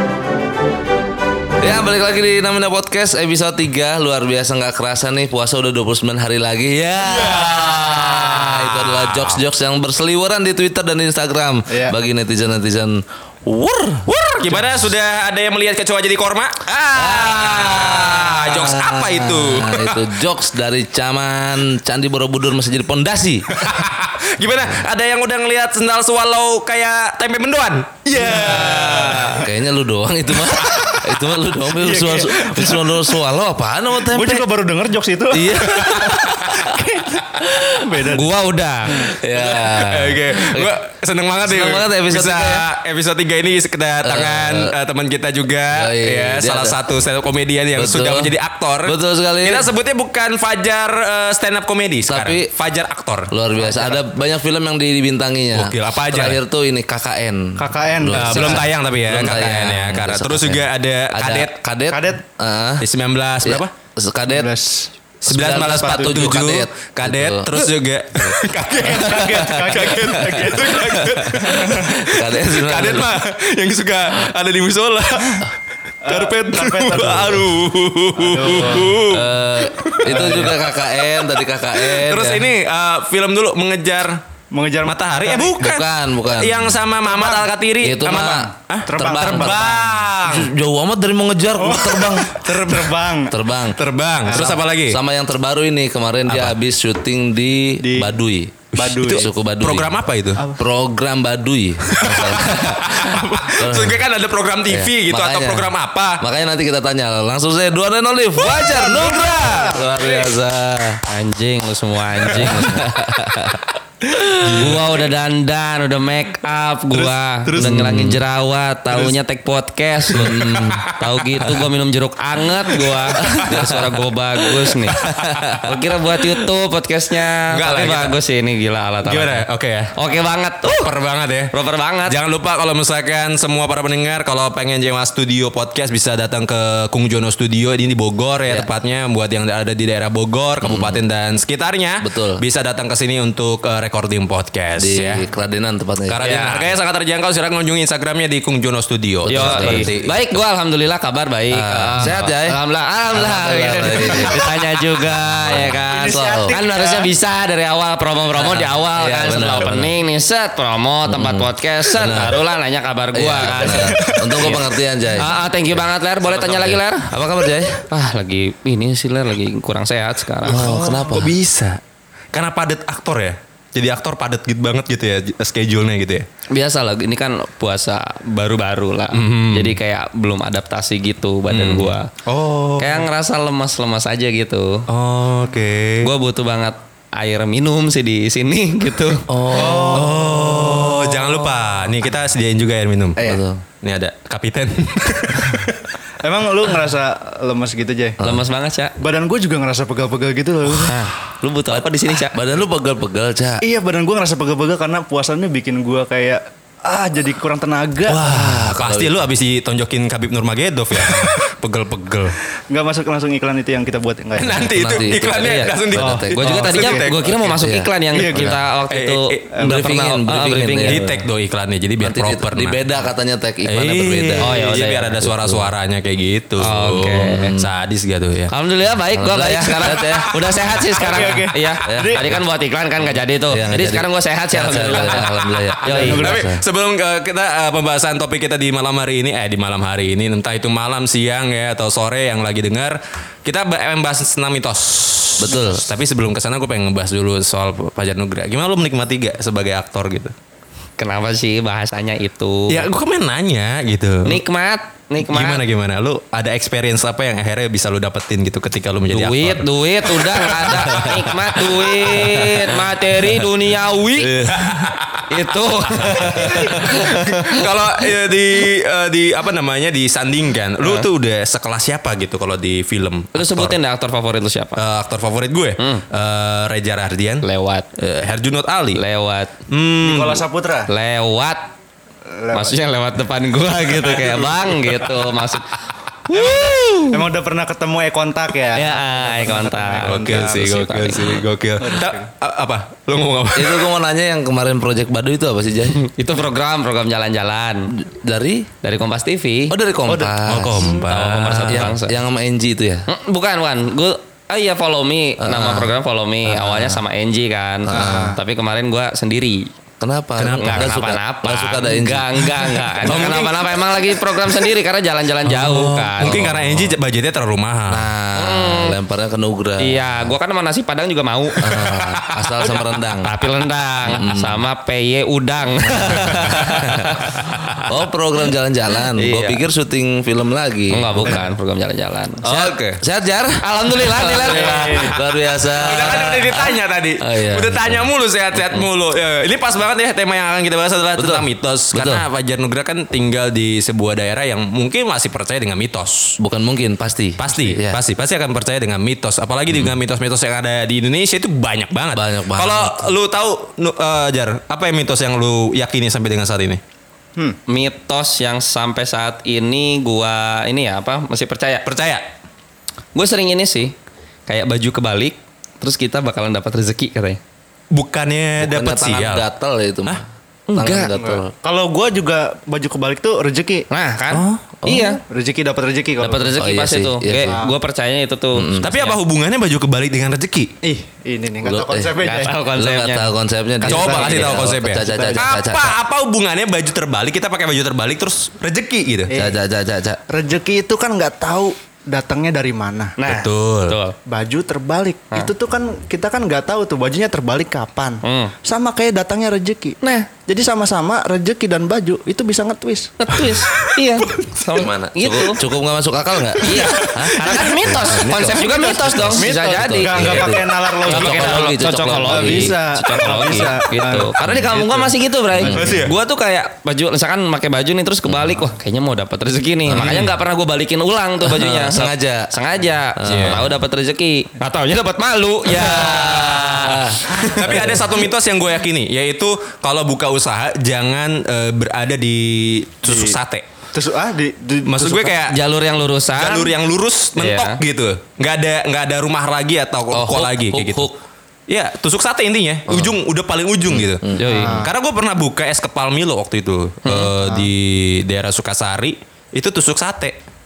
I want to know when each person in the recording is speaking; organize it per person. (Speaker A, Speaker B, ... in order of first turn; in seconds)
Speaker A: 1.6-14.8, 16.7-23.5, 28.2-34.5, 35.3-36.8, 39.2-40.7, 41.4-42.7, 44.0-44.7, 45.7-46.8, 47.8-48.3, 48.9-49.7, 52.1-52.5, 53.3-62.9, 63.4-64.5, 65.2-67.6, 71.5-73.1, 79.1-82.5, 85.6-86.8, 87.8-92.5, 93.3-93.8, 94.3-100.0, 100.5-102.8, 103.6-104.0, 104.7-111.0, 112.3-114.8, 117.5-118.2, 120.1-120.8, 123.2-123.7, 140.6-141.0, 142.0-142.4, 144.8-146.8, 149.3-149.9, 151.5-152.6, 153.1-154.4, 155.1-156.6, 158.5-159.9, 161.1-162.4, 163.1-165.3, 166.7-167.8, 170.4-171.3, 189.3-190.3, 193.2-193.6, 198.2-198.5, 202.3-203.6, 208.2-209.2, 214.8-216.4, 217.6-218.5, 219.6-221.2, 222.0-224.7, 225.2-225.7, 227.2-227.7, 229.1-230.3, 231.9-232.4, 233.5-236.6, 245.4-245.9, 293.6-296.0, 298.0-298.7, 299.7-301.0, 301.5-303.1, 305.4-305.9, 306.5-307.0, 307.9-308.4, 310.0-312.5, 315.6-316.9, 317.9-320.2, 321.6-323.3, 324.1-324.6, 325.9-327.1, 327.9-331.4, 332.4-338.1, 341.2-342.2, 346.4-348.0, 352.1-353.1, 368.6-371.5, 374.8-375.1, 376.6-377.6, 378.6-378.9, 381.6-382.2, 382.8-386.0, 389.4-390.2, 404.8-412.7, 414.4-414.7, 415.6-416.0, 420.0-420.2, 421.4-422.5, 423.2-423.7, 425.7-428.0, 440.1-441.2, 443.9-444.7
Speaker B: 7.0-9.4, 14.2-20.1, 23.5-29.5, 30.4-31.1, 35.7-36.6, 39.4-54.0, 55.5-56.4, 58.1-61.6, 62.8-63.7, 65.2-75.5, 76.1-80.7, 81.8-84.2, 84.8-90.5, 92.5-92.8, 93.8-95.0, 96.3-96.6, 98.7-100.5, 101.9-106.2, 108.6-109.7, 112.5-112.8, 114.4-115.1, 117.0-117.6, 120.1-121.7, 122.7-124.0, 124.7-125.7, 127.5-128.2, 129.1-129.9, 130.7-131.5, 132.1-145.3, 146.1-150.2, 166.3-166.7, 170.4-171.8, 172.3-176.3, 179.1-179.8, 181.5-183.1, 184.9-186.1, 189.7-193.2, 193.8-195.9, 208.1-212.4, 214.4-217.7, 218.3-219.5, 220.8-222.8, 223.7-228.5, 229.8-231.4, 234.8-250.3, 252.7-254.4, 255.2-263.5, 264.2-273.8, 274.8-277.4, 278.0-279.0, 279.7-280.4, 286.3-286.7, 290.0-293.9, 300.4-301.9, 310.4-311.0, 313.0-313.8, 315.5-318.1, 321.7-322.8, 326.2-326.7, 327.3-327.9, 332.5-333.0, 334.6-335.0, 335.7-346.4, 347.4-356.8, 361.9-362.3, 367.9-369.5, 374.3-374.6, 378.8-380.7, 383.9-389.3, 393.2-394.0, 406.7-407.9, 415.6-416.1, 419.9-420.3, 423.3-423.7, 425.7-433.7, 434.9-435.6, 436.4-441.1, 441.7-450.4
Speaker C: 11.7-11.9, 28.1-29.3, 31.8-33.0, 34.0-38.3, 57.6-58.6, 61.9-62.2, 64.3-64.9, 65.6-66.4, 68.8-71.8, 76.0-77.5, 78.2-79.1, 80.1-80.5, 84.5-85.6, 87.1-87.5, 88.9-89.6, 91.6-93.4, 94.3-94.6, 97.8-98.2, 98.8-99.3, 100.4-100.6, 108.5-109.9, 117.5-117.9, 155.9-157.1, 163.7-164.6, 189.5-191.1, 193.2-193.4, 196.2-198.2, 199.0-201.0, 203.6-208.3, 212.7-214.8, 215.9-217.1, 218.1-218.6, 219.5-219.9, 231.0-232.3, 236.0-236.4, 280.0-280.9, 282.3-282.8, 287.1-290.6, 291.8-292.3, 300.1-300.4, 307.9-308.4, 334.3-335.2, 371.1-373.9, 375.2-376.6, 377.5-377.8, 380.8-382.6, 383.8-385.6, 389.3-389.6, 390.3-393.2, 394.3-403.1, 409.3-414.9, 433.1-433.4, 433.9-435.4, 444.5-444.9
Speaker D: 37.9-39.1, 111.1-112.9, 114.5-130.9, 131.5-132.2, 149.3-167.1, 167.9-170.7, 176.5-182.1, 182.8-184.8, 186.0-189.3, 198.2-198.9, 200.8-202.4, 215.4-215.7, 216.4-221.1, 224.4-225.2, 226.6-227.5, 228.5-235.3, 235.8-236.4, 251.0-252.9, 254.2-255.6, 259.1-264.6, 265.3-267.7, 270.8-271.1, 273.4-274.8, 275.8-276.1, 277.4-277.9, 278.9-279.5, 280.9-281.7, 282.5-287.3, 288.7-291.5, 295.9-297.9, 298.8-299.7, 300.9-302.2, 303.1-309.7, 310.6-316.5, 318.4-319.0, 319.8-321.6, 322.7-327.1, 329.2-329.6, 330.9-332.6, 333.6-335.1, 336.0-336.3, 357.7-361.9, 363.1-363.9, 364.5-367.4, 370.7-371.1, 373.9-375.2, 376.2-379.2, 382.2-383.3, 384.3-384.7, 393.2-394.1, 398.2-398.5, 400.0-400.3, 403.2-405.6, 406.6-427.9, 435.5-436.8, 437.4-437.8, 444.4-444.8, 447.1-447.4